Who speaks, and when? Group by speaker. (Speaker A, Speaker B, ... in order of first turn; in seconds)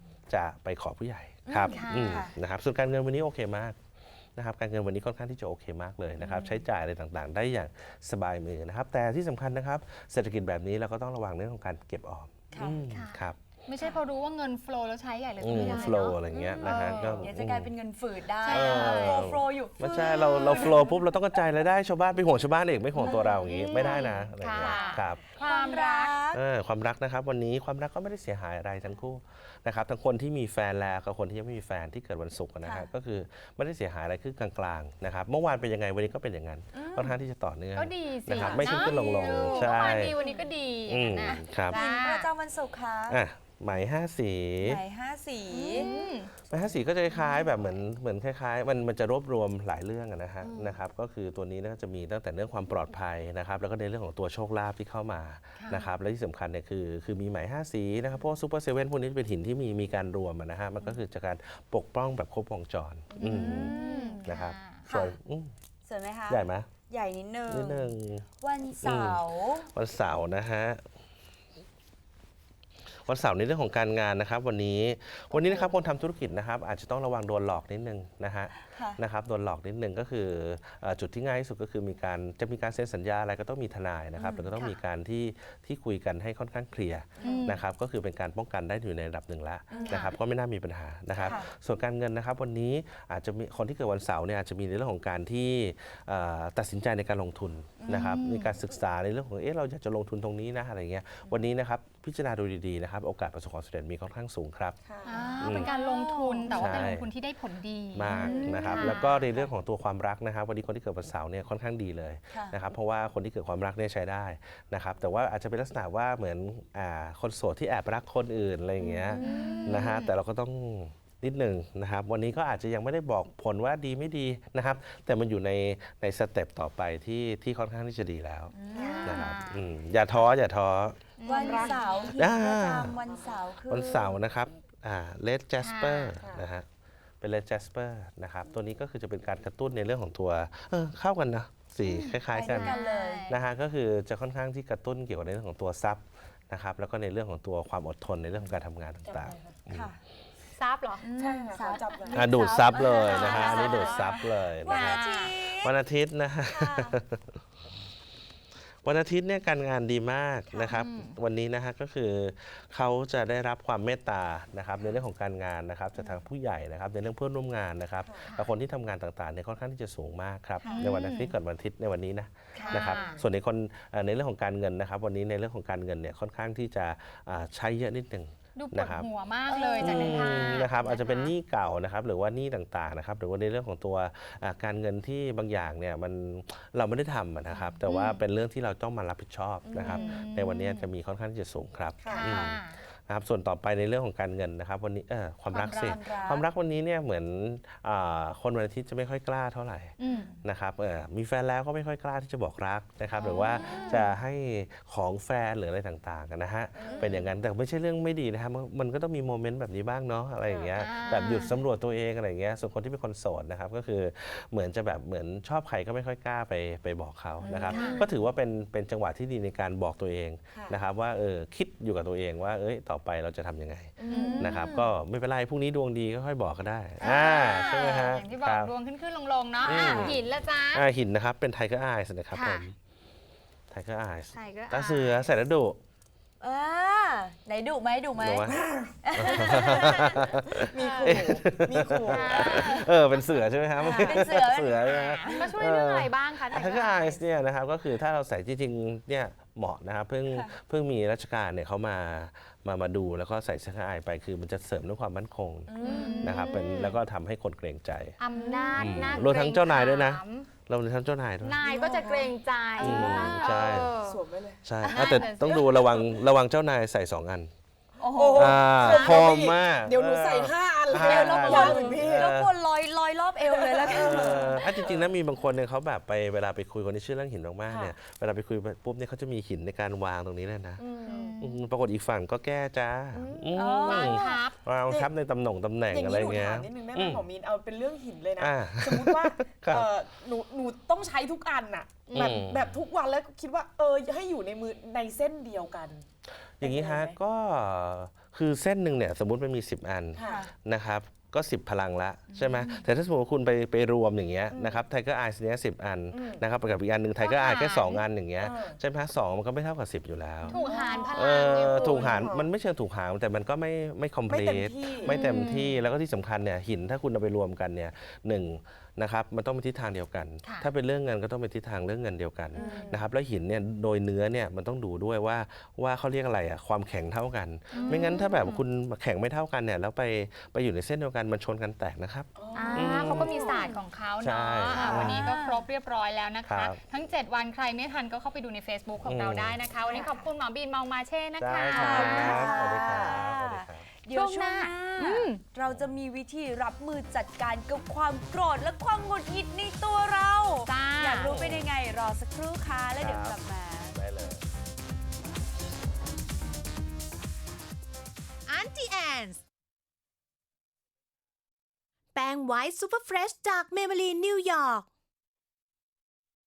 Speaker A: 0.3-3.8, 4.4-13.4, 15.4-17.7, 18.4-25.3, 26.3-40.2, 40.9-41.8, 43.1-44.8, 46.4-65.5, 66.3-66.7, 67.5-68.3, 68.8-70.8, 73.0-104.8, 105.4-105.7, 106.5-107.1, 107.9-128.5, 129.1-131.1, 132.2-133.0, 133.6-136.7, 137.2-149.9, 152.1-157.4, 158.8-179.1, 179.8-228.7, 229.6-232.8, 233.7-235.8, 238.2-258.2, 258.7-261.6, 262.8-263.9, 264.6-267.5, 268.3-272.6, 273.8-280.9, 281.4-287.2, 288.4-289.9, 292.1-292.8, 296.6-333.4, 334.2-335.3, 336.5-336.8, 339.0-339.6, 341.4-343.9, 351.2-351.7, 352.9-354.5
Speaker B: 1.5-2.4, 6.2-6.7, 12.5-12.8, 15.6-21.0, 23.0-24.1, 24.6-26.4, 32.6-32.9, 36.7-37.2, 38.4-40.5, 41.7-43.2, 44.6-45.9, 63.1-64.3, 64.9-65.2, 65.8-69.7, 78.6-79.0, 84.2-84.5, 87.2-87.5, 89.7-90.1, 91.2-91.5, 97.8-98.2, 101.3-101.5, 105.1-106.9, 108.0-109.0, 112.3-112.6, 118.8-119.9, 128.5-129.1, 131.2-134.2, 142.3-143.3, 149.7-150.0, 151.0-155.7, 156.5-157.0, 166.0-166.2, 170.6-170.9, 172.5-173.1, 179.5-180.4, 189.7-190.2, 195.6-196.5, 203.5-204.2, 217.4-218.1, 224.0-224.9, 236.4-240.2, 242.3-242.9, 243.8-245.5, 255.7-256.4, 258.4-259.2, 268.0-268.6, 270.9-274.8, 283.5-284.4, 300.2-300.5, 322.6-323.0, 333.3-333.8, 334.6-335.7, 339.9-340.3, 341.7-354.0
Speaker C: 1.6-2.3, 12.9-17.2, 18.4-19.3, 19.9-20.9, 23.0-26.2, 37.8-42.3, 45.5-46.3, 47.1-47.5, 55.6-55.9, 63.2-64.9, 87.2-87.6, 89.8-90.2, 97.9-98.6, 105.1-109.4, 119.2-120.1, 128.8-130.3, 131.2-132.1, 135.6-136.2, 141.8-143.4, 150.6-151.1, 152.9-155.3, 160.7-161.2, 168.3-168.5, 170.7-171.3, 172.6-173.2, 178.6-181.3, 187.8-188.2, 189.8-190.9, 192.1-192.8, 195.5-196.0, 200.0-200.3, 203.2-204.1, 210.8-211.6, 217.7-218.1, 224.1-224.6, 227.0-230.9, 232.3-232.7, 234.3-235.3, 240.8-241.2, 242.1-243.2, 244.8-247.2, 255.8-257.0, 258.2-260.5, 261.4-264.2, 264.8-265.9, 268.8-269.3, 281.1-281.6, 283.8-284.6, 302.4-302.6, 307.2-308.1, 310.5-312.2, 315.1-315.8, 320.4-320.7, 327.7-328.6, 332.5-342.6, 344.1-345.4, 350.6-351.3
Speaker D: 104.8-105.4, 128.7-129.3, 131.3-132.2, 133.0-133.4, 136.2-136.5, 149.0-149.6, 151.2-152.6, 168.0-168.3, 192.0-192.3, 206.8-207.2, 210.5-210.7, 217.7-218.0, 220.5-220.8, 224.1-224.4, 229.7-230.2, 238.5-239.7, 240.6-242.6, 255.8-256.1, 261.6-264.6, 268.0-272.3, 273.4-275.1, 277.7-277.9, 280.8-281.4, 283.1-284.2, 285.9-296.1, 296.6-297.2, 300.1-300.4, 304.5-304.9, 306.1-306.4, 308.4-308.8, 310.6-312.5, 314.3-315.1, 322.5-323.1, 332.4-333.7
Speaker E: 358.5-359.4, 362.1-364.9